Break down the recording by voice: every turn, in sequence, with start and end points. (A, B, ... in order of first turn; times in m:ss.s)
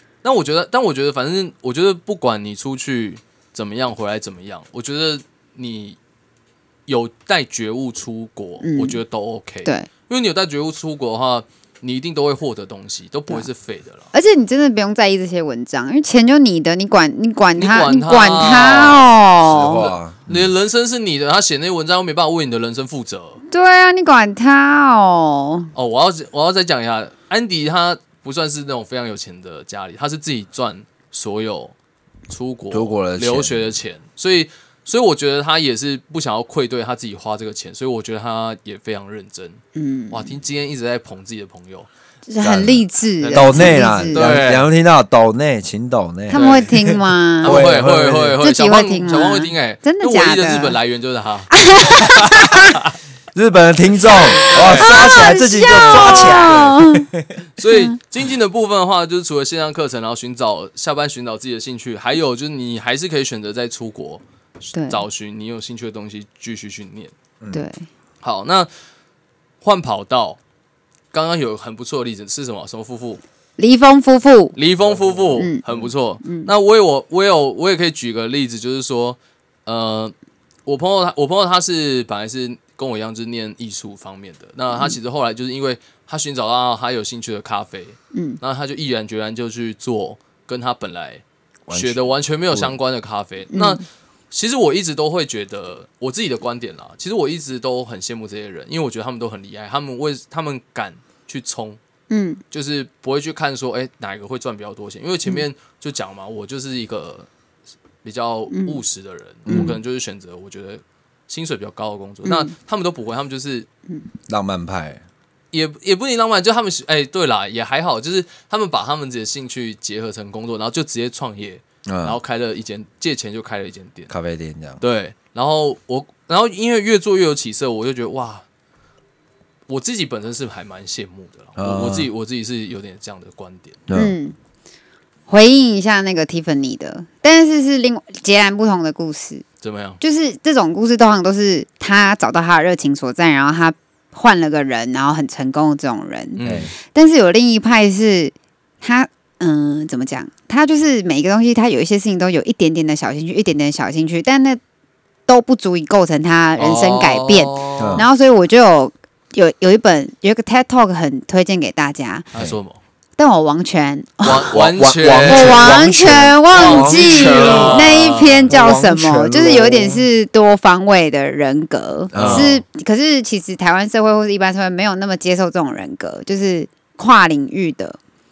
0:00.2-0:06.0 A
0:06.9-0:14.1 A
0:08.6-0:09.0 B
0:14.1-0:19.8 B
0:17.6-0:23.4 A
0:19.4-0:20.5 C
0:23.5-0:25.7 B
0:25.8-0:31.7 A
0:32.3-0:41.9 A
0:32.7-0:33.7 C
0:39.8-0:40.4 B
0:42.3-0:44.4 B
0:42.4-0:48.4 C
0:43.2-0:44.7 A
0:46.3-0:47.7 B
0:46.3-0:46.8 A
0:47.4-0:52.9 A
0:48.4-0:50.8 B
0:51.5-0:52.8 B
0:53.3-0:57.3 C
0:54.0-0:56.9 A
0:54.7-0:57.1 B
0:57.6-1:07.1 A
0:57.7-0:58.0 B
1:04.7-1:05.0 B
1:07.5-1:07.9 B
1:08.2-1:08.7 A
1:09.6-1:10.4 A
1:11.1-1:13.2 A
1:13.6-1:14.6 B
1:14.6-1:20.1 A
1:15.1-1:15.9 C
1:15.4-1:15.6 B
1:16.2-1:16.5 B
1:20.7-1:41.8 A
1:28.1-1:28.4 B
1:31.7-1:32.8 C
1:33.5-1:33.8 B
1:42.1-1:42.4 B
1:42.5-1:47.3 A
1:48.0-1:53.7 A
1:48.5-1:48.8 B
1:49.5-1:49.8 B
1:49.5-1:49.8 C
1:52.2-1:52.5 B
1:54.3-1:55.0 C
1:55.5-2:04.1 A
2:01.9-2:02.2 C
2:04.1-2:04.8 C
2:04.8-2:08.4 A
2:09.7-2:13.8 A
2:11.6-2:12.1 C
2:13.9-2:14.2 C
2:13.9-2:14.4 B
2:15.3-2:19.4 B
2:19.6-2:20.0 A
2:20.0-2:34.6 B
2:26.4-2:26.7 A
2:26.4-2:26.7 C
2:35.3-2:42.3 B
2:36.6-2:38.0 A
2:37.8-2:38.1 C
2:42.3-2:42.8 A
2:43.2-2:44.5 B
2:44.2-2:45.9 A
2:44.5-2:50.1 C
2:45.3-2:58.0 B
2:46.5-2:48.5 A
2:52.1-2:52.5 C
2:52.2-2:52.6 A